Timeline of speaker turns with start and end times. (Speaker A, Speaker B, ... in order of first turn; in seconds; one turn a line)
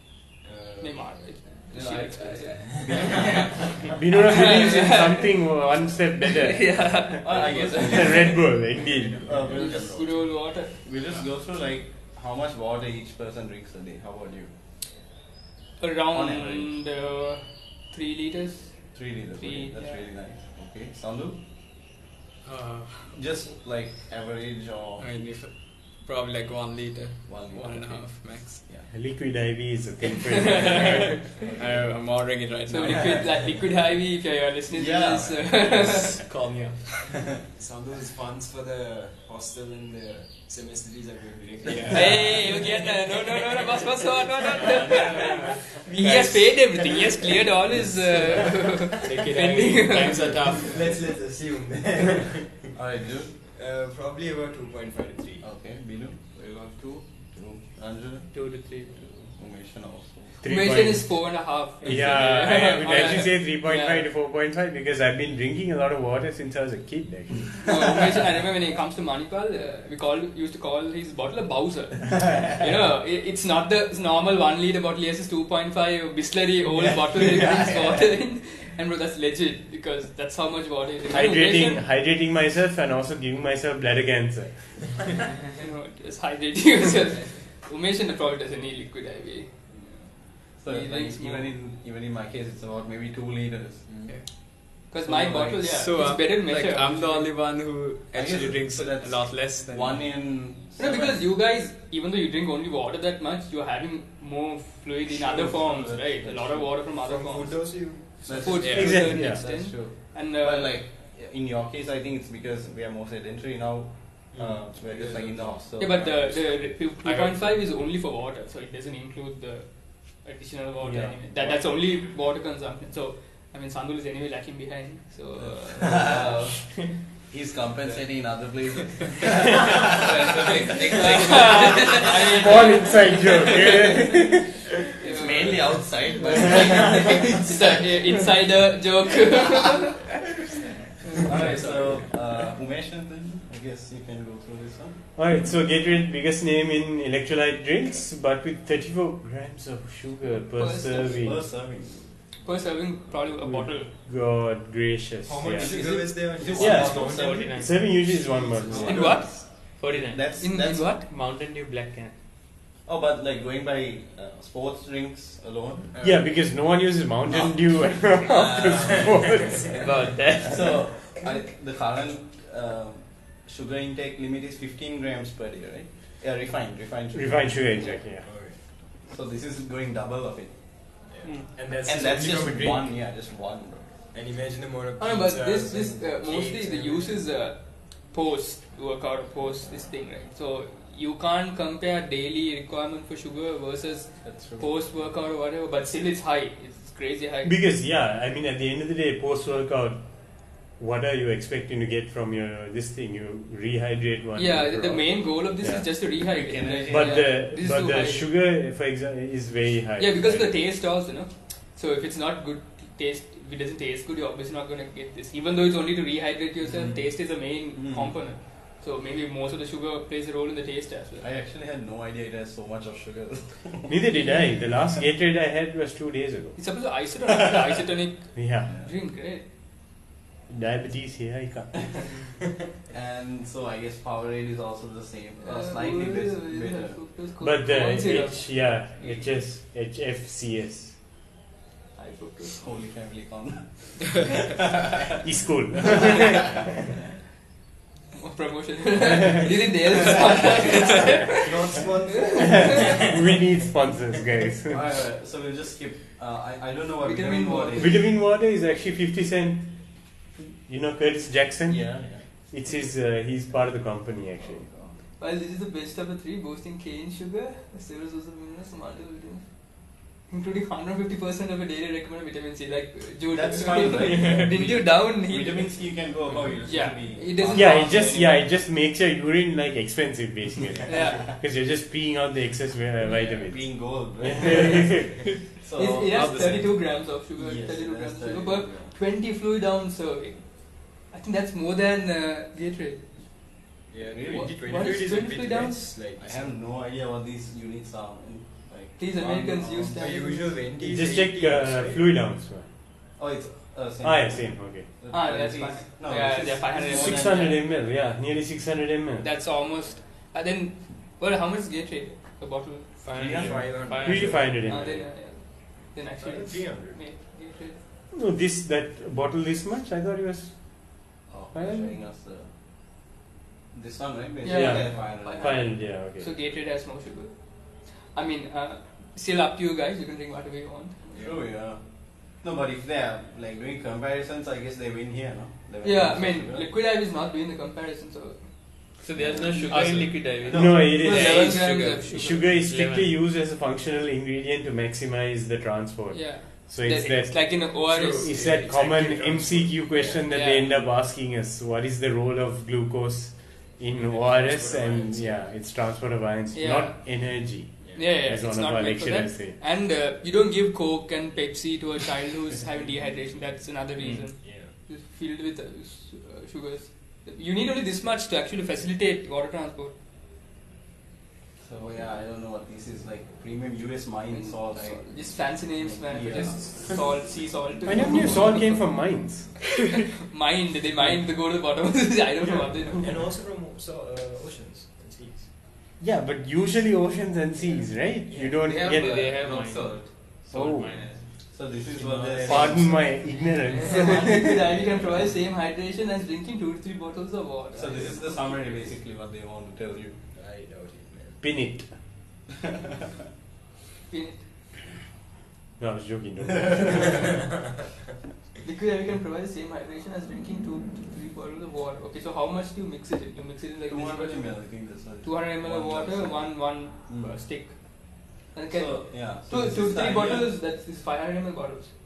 Speaker A: 0.4-1.0
Speaker B: 0.8-3.5
Speaker C: 1.7-3.7
Speaker A: 2.6-3.5
Speaker D: 3.9-9.5
Speaker B: 4.1-5.5
Speaker B: 6.2-8.4
Speaker C: 7.2-8.4
Speaker A: 8.7-10.0
Speaker C: 9.2-14.5
Speaker B: 9.5-10.7
Speaker B: 15.8-20.1
Speaker C: 16.1-16.7
Speaker C: 18.9-21.4
Speaker E: 22.4-23.2
Speaker C: 23.1-25.1
Speaker E: 25.0-28.6
Speaker C: 27.3-28.9
Speaker D: 28.9-31.2
Speaker B: 30.6-30.8
Speaker E: 30.7-33.4
Speaker C: 31.4-32.0
Speaker B: 32.7-36.2
Speaker C: 34.7-36.1
Speaker E: 35.7-37.3
Speaker A: 37.5-42.6
Speaker E: 41.6-42.5
Speaker B: 41.9-50.5
Speaker A: 44.6-46.3
Speaker E: 44.6-47.0
Speaker E: 48.2-51.0
Speaker A: 48.3-49.2
Speaker A: 50.4-52.7
Speaker C: 52.7-53.3
Speaker A: 53.5-55.5
Speaker C: 55.4-56.2
Speaker A: 56.3-57.0
Speaker C: 57.3-58.4
Speaker F: 58.6-58.9
Speaker C: 59.3-60.4
Speaker D: 60.4-67.7
Speaker B: 60.4-64.1
Speaker B: 67.6-81.8
Speaker C: 76.8-78.0
Speaker D: 81.1-85.1
Speaker B: 85.6-89.9
Speaker B: 90.5-91.5
Speaker C: 90.6-93.9
Speaker A: 93.9-94.2
Speaker B: 94.9-97.3
Speaker C: 95.0-95.8
Speaker E: 95.7-100.2
Speaker C: 98.1-101.3
Speaker B: 100.8-110.7
Speaker C: 105.2-106.8
Speaker A: 106.9-108.7
Speaker C: 108.3-116.8
Speaker E: 108.6-108.9
Speaker D: 108.7-109.4
Speaker A: 114.3-115.6
Speaker B: 115.8-126.3
Speaker E: 117.0-117.6
Speaker D: 120.8-121.2
Speaker C: 125.8-132.2
Speaker F: 130.2-131.9
Speaker E: 130.4-131.7
Speaker B: 130.9-135.7
Speaker D: 132.3-134.7
Speaker C: 135.0-137.8
Speaker B: 136.3-140.2
Speaker B: 141.1-141.7
Speaker C: 141.2-145.0
Speaker A: 141.3-141.9
Speaker D: 145.2-151.4
Speaker B: 150.6-151.3
Speaker C: 151.1-152.1
Speaker B: 152.4-153.9
Speaker D: 153.4-155.8
Speaker A: 155.2-159.3
Speaker C: 155.6-157.7
Speaker D: 156.5-159.2
Speaker F: 157.3-157.6
Speaker C: 158.6-161.0
Speaker B: 158.8-159.5
Speaker F: 159.8-160.2
Speaker B: 160.4-161.1
Speaker F: 161.1-162.1
Speaker C: 162.8-166.0
Speaker A: 165.9-166.2
Speaker D: 166.0-169.9
Speaker C: 167.3-169.6
Speaker A: 169.3-169.7
Speaker F: 169.8-170.8
Speaker C: 170.4-177.9
Speaker D: 177.1-178.3
Speaker A: 178.1-178.6
Speaker C: 178.9-180.9
Speaker A: 181.1-182.9
Speaker C: 181.8-183.9
Speaker A: 184.1-187.2
Speaker B: 185.0-197.6
Speaker C: 194.2-194.7
Speaker D: 197.4-205.9
Speaker B: 204.4-208.3
Speaker C: 206.2-207.3
Speaker D: 206.9-210.5
Speaker B: 210.0-221.3
Speaker C: 216.7-217.0
Speaker C: 217.7-218.2
Speaker C: 221.2-223.9
Speaker D: 223.9-226.6
Speaker B: 226.6-229.5
Speaker D: 228.3-228.8
Speaker D: 230.5-232.1
Speaker C: 232.9-237.0
Speaker B: 235.4-239.3
Speaker D: 237.4-241.0
Speaker B: 242.0-242.6
Speaker C: 242.5-245.2
Speaker D: 245.2-246.7
Speaker B: 248.1-253.0
Speaker A: 251.3-253.1
Speaker D: 252.8-254.8
Speaker C: 254.7-258.0
Speaker B: 257.0-258.0
Speaker D: 257.8-264.7
Speaker C: 261.7-262.2
Speaker C: 264.4-264.9
Speaker B: 265.2-275.8
Speaker C: 273.3-278.3
Speaker B: 276.6-278.4
Speaker D: 277.5-285.3
Speaker B: 280.9-281.3
Speaker B: 283.1-283.3
Speaker C: 283.3-286.6
Speaker B: 285.8-293.5
Speaker E: 286.1-286.7
Speaker C: 287.4-288.9
Speaker A: 293.9-296.6
Speaker C: 294.1-294.5
Speaker B: 294.3-295.9
Speaker C: 296.2-300.0
Speaker B: 299.0-300.6
Speaker A: 299.9-302.1
Speaker D: 300.8-302.7
Speaker C: 303.2-307.6
Speaker D: 304.0-304.9
Speaker B: 305.1-307.6
Speaker D: 306.9-309.3
Speaker B: 309.2-312.9
Speaker F: 313.1-314.3
Speaker C: 313.2-314.4
Speaker A: 313.2-314.2
Speaker D: 314.0-315.1
Speaker B: 314.4-317.8
Speaker A: 316.2-317.0
Speaker D: 318.1-322.0
Speaker C: 321.3-323.1
Speaker C: 323.7-325.7
Speaker B: 324.4-331.0
Speaker D: 324.5-326.3
Speaker C: 331.1-336.7
Speaker B: 335.8-338.9
Speaker F: 339.0-340.6
Speaker C: 339.2-340.9
Speaker B: 339.5-342.5
Speaker E: 339.7-342.1
Speaker D: 340.5-359.6
Speaker F: 342.6-343.1
Speaker B: 346.1-348.4
Speaker E: 347.9-349.6
Speaker A: 350.0-350.2
Speaker B: 350.3-350.7
Speaker A: 354.0-355.3
Speaker B: 356.5-357.4
Speaker A: 357.8-358.1
Speaker B: 357.9-369.9
Speaker A: 364.4-364.7
Speaker C: 371.6-376.9
Speaker B: 374.3-378.9
Speaker A: 376.4-376.6
Speaker D: 377.9-379.7
Speaker B: 380.2-383.2
Speaker A: 383.0-385.5
Speaker D: 386.0-389.4
Speaker F: 388.6-391.3
Speaker E: 389.0-390.0
Speaker C: 390.5-390.9
Speaker D: 390.5-390.9
Speaker C: 391.4-393.1
Speaker F: 392.0-392.7
Speaker D: 392.4-394.6
Speaker B: 393.8-398.9
Speaker C: 397.8-400.2
Speaker A: 400.3-401.4
Speaker D: 401.4-402.0
Speaker B: 404.1-404.5
Speaker D: 405.8-407.3
Speaker B: 408.6-421.9
Speaker C: 413.9-417.4
Speaker C: 418.7-420.5